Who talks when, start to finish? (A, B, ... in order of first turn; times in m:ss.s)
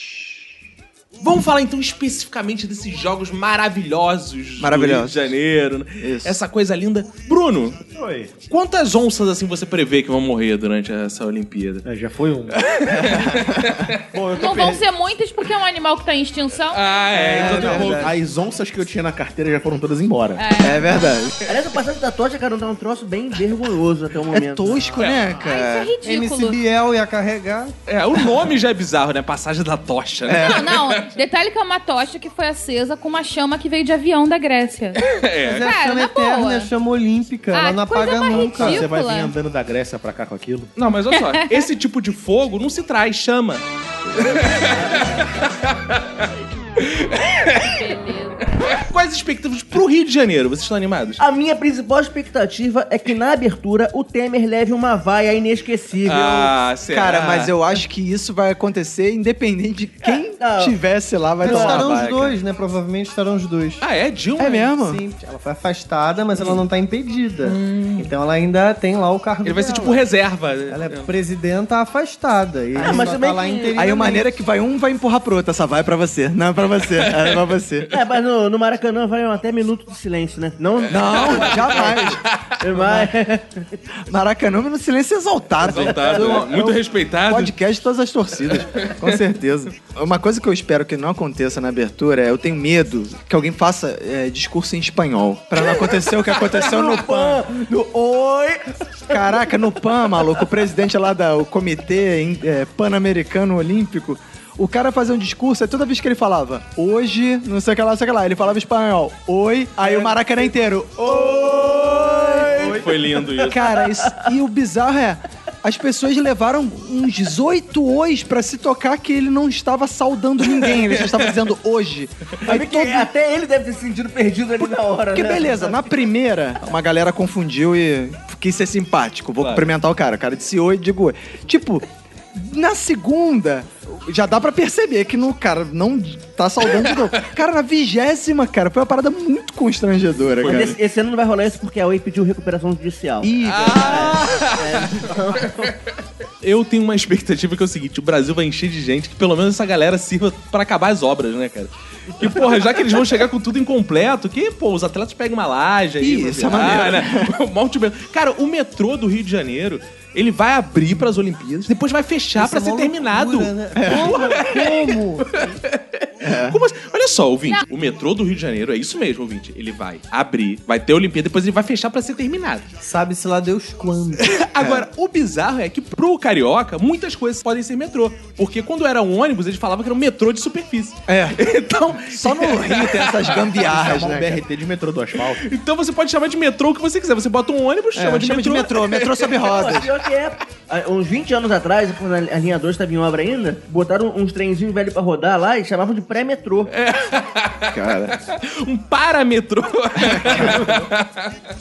0:01.2-0:07.8 A
0:04.6-0:05.3 B
0:06.0-0:06.4 B
0:07.9-0:08.4 C
0:08.4-0:11.9 A
0:11.8-0:12.6 C
0:12.5-0:14.0 A
0:12.9-0:13.8 B
0:14.1-0:14.8 C
0:14.3-0:16.8 D
0:16.7-0:18.1 A
0:17.1-0:18.1 B
0:17.1-0:20.4 C
0:20.4-0:21.1 D
0:20.6-0:21.6 B
0:21.5-0:24.9 E
0:24.3-0:26.0 B
0:25.0-0:25.3 A
0:25.1-0:25.4 C
0:25.4-0:26.6 D
0:26.0-0:27.7 F
0:27.9-0:31.0 A
0:30.2-0:30.7 B
0:30.4-0:36.7 D
0:35.0-0:35.7 A
0:35.4-0:38.9 F
0:37.5-0:39.3 D
0:38.3-0:40.7 C
0:40.8-0:47.8 A
0:41.2-0:41.5 D
0:44.7-0:45.1 E
0:47.6-0:48.5 D
0:48.6-0:51.2 A
0:51.2-0:56.5 E
0:56.0-0:57.6 A
0:56.9-1:02.4 B
1:00.4-1:00.7 E
1:01.4-1:01.8 E
1:01.4-1:03.8 F
1:01.7-1:02.2 A
1:03.8-1:04.7 A
1:04.4-1:05.0 B
1:04.7-1:10.0 F
1:06.4-1:06.6 A
1:07.4-1:08.1 A
1:09.4-1:11.1 A
1:10.7-1:14.3 F
1:12.8-1:13.8 E
1:13.7-1:17.9 B
1:16.9-1:17.6 A
1:17.9-1:21.9 E
1:20.8-1:22.5 A
1:20.9-1:22.2 B
1:22.6-1:23.8 E
1:22.7-1:23.1 B
1:24.1-1:37.5 B
1:25.6-1:27.5 A
1:25.7-1:26.5 E
1:28.6-1:29.2 A
1:36.4-1:39.2 E
1:39.1-1:52.8 B
1:49.8-1:50.2 E
1:51.0-1:53.1 E
1:52.8-1:53.6 A
1:53.3-2:03.1 B
1:53.8-1:54.3 E
2:00.5-2:01.4 A
2:02.4-2:05.9 E
2:05.1-2:20.8 B
2:09.4-2:09.7 A
2:16.8-2:17.2 A
2:20.4-2:20.8 A
2:20.4-2:25.7 E
2:23.2-2:24.2 B
2:23.4-2:25.7 A
2:26.4-2:52.7 A
2:36.0-2:37.3 B
2:42.4-2:45.4 F
2:43.7-2:44.4 B
2:46.2-2:46.6 B
2:52.8-2:54.3 F
2:54.3-3:03.7 A
2:54.6-2:54.9 B
3:01.1-3:01.4 B
3:02.0-3:04.4 B
3:03.6-3:05.4 C
3:05.4-3:09.7 A
3:08.0-3:09.9 B
3:09.4-3:16.7 E
3:16.7-3:21.3 A
3:17.7-3:18.2 B
3:20.0-3:20.6 B